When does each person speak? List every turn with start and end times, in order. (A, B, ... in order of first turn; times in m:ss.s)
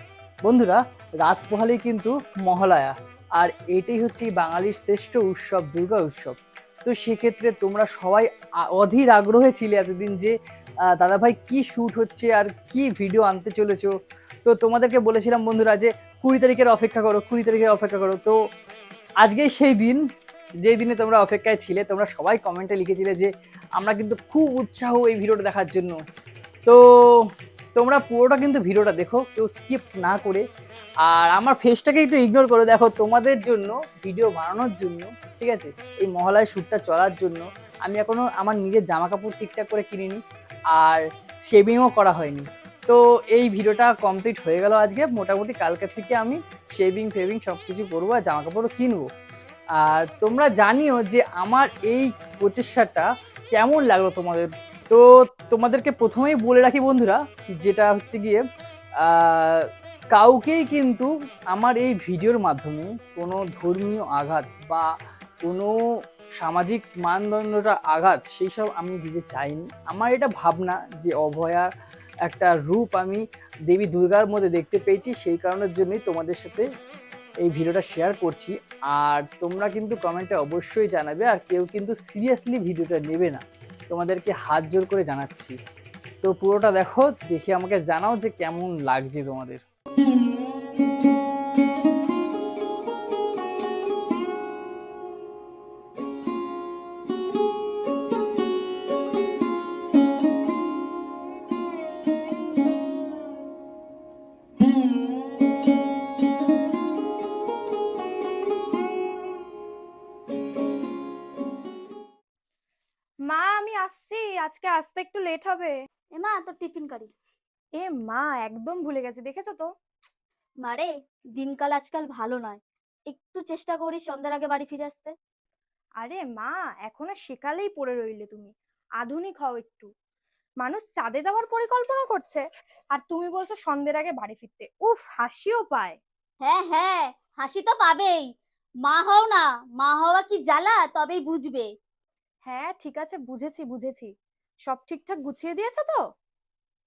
0:00.5-0:10.4 A
0:11.0-0:13.9 A
0:14.5-0:18.4 A
0:19.2-0:20.0 A
0:20.6-0:26.0 A
0:26.7-0:27.2 A
0:27.8-0:30.4 A
0:31.1-0:40.2 A
0:40.7-0:49.1 A
0:49.8-0:58.4 A
0:59.0-1:04.9 A
1:05.4-1:05.7 A
1:06.4-1:11.7 A
1:12.3-1:16.7 A
1:17.4-1:25.6 A
1:26.2-1:29.6 A
1:53.3-1:55.7 B
1:56.2-1:57.1 C
1:57.8-1:59.7 B
2:00.6-2:05.2 C
2:06.0-2:09.9 B
2:10.6-2:12.4 B
2:13.0-2:16.0 B
2:16.4-2:18.3 C
2:18.9-2:21.7 C
2:22.5-2:24.1 B
2:24.7-2:26.0 B